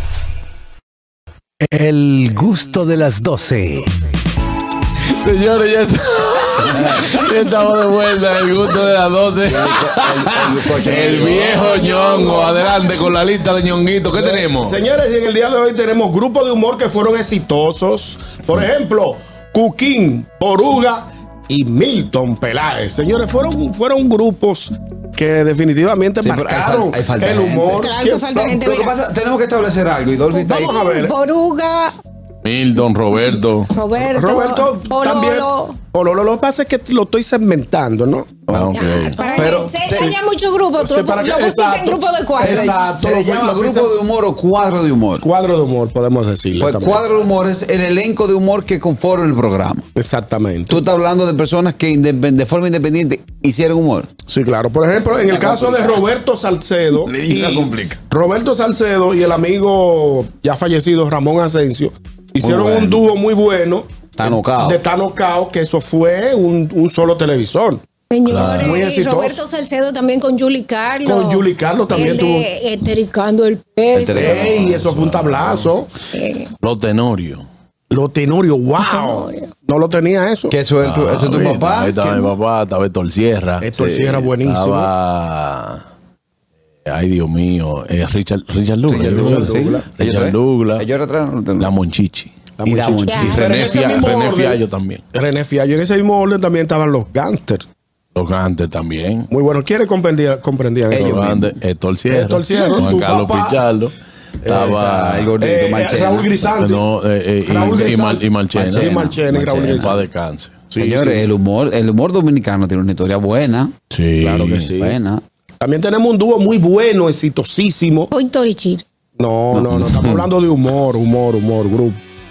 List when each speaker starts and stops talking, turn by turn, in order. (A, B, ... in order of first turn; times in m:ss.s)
0:01.6-0:03.9 A
0:05.2-0:14.8 B
0:09.4-0:12.0 C
0:11.2-0:12.5 D
0:11.8-0:12.7 E
0:14.1-0:28.2 D
0:26.2-0:30.9 C
0:27.7-0:28.9 E
0:30.3-0:32.0 E
0:30.5-0:31.1 D
0:32.4-0:33.7 B
0:33.7-0:35.8 E
0:34.0-0:38.4 D
0:38.5-0:40.2 C
0:38.5-0:39.2 B
0:38.7-0:42.8 E
0:39.2-0:40.0 D
0:40.8-0:43.9 D
0:42.3-0:45.3 C
0:45.2-0:47.0 D
0:46.5-0:49.9 C
0:50.0-0:50.8 D
0:50.7-0:54.1 C
0:54.3-1:07.8 D
0:55.3-0:56.0 C
0:57.0-0:57.9 B
0:57.2-0:57.9 C
1:02.4-1:02.9 C
1:02.4-1:03.0 B
1:04.2-1:04.8 C
1:08.1-1:14.4 E
1:08.3-1:08.8 B
1:08.4-1:09.4 D
1:11.0-1:12.5 D
1:13.9-1:15.0 C
1:14.1-1:15.9 D
1:14.8-1:15.6 B
1:16.1-1:16.5 E
1:16.6-1:17.4 B
1:17.9-1:20.5 D
1:18.8-1:19.5 E
1:20.5-1:22.3 C
1:20.8-1:23.7 B
1:23.6-1:24.9 D
1:23.8-1:24.3 C
1:24.4-1:25.8 B
1:26.8-1:30.8 B
1:28.9-1:31.7 C
1:28.9-1:29.8 D
1:31.6-1:32.3 B
1:32.6-1:34.6 D
1:32.6-1:33.8 C
1:33.0-1:34.0 E
1:33.3-1:35.0 B
1:35.1-1:37.6 D
1:38.2-1:39.3 B
1:39.3-1:41.3 D
1:40.9-1:41.5 C
1:40.9-1:43.9 B
1:42.1-1:43.6 D
1:44.4-1:44.8 D
1:44.4-1:45.3 B
1:44.5-1:46.6 C
1:45.4-1:46.8 D
1:46.6-1:48.9 B
1:47.4-1:50.0 D
1:47.5-1:48.0 C
1:48.5-1:50.0 C
1:49.7-1:50.7 B
1:50.7-1:51.2 D
1:50.8-1:53.7 C
1:53.9-1:54.7 B
1:54.2-1:55.0 D
1:54.8-1:55.2 C
1:55.6-1:58.1 D
1:58.1-1:58.8 E
1:59.2-2:02.0 D
1:59.5-2:00.3 B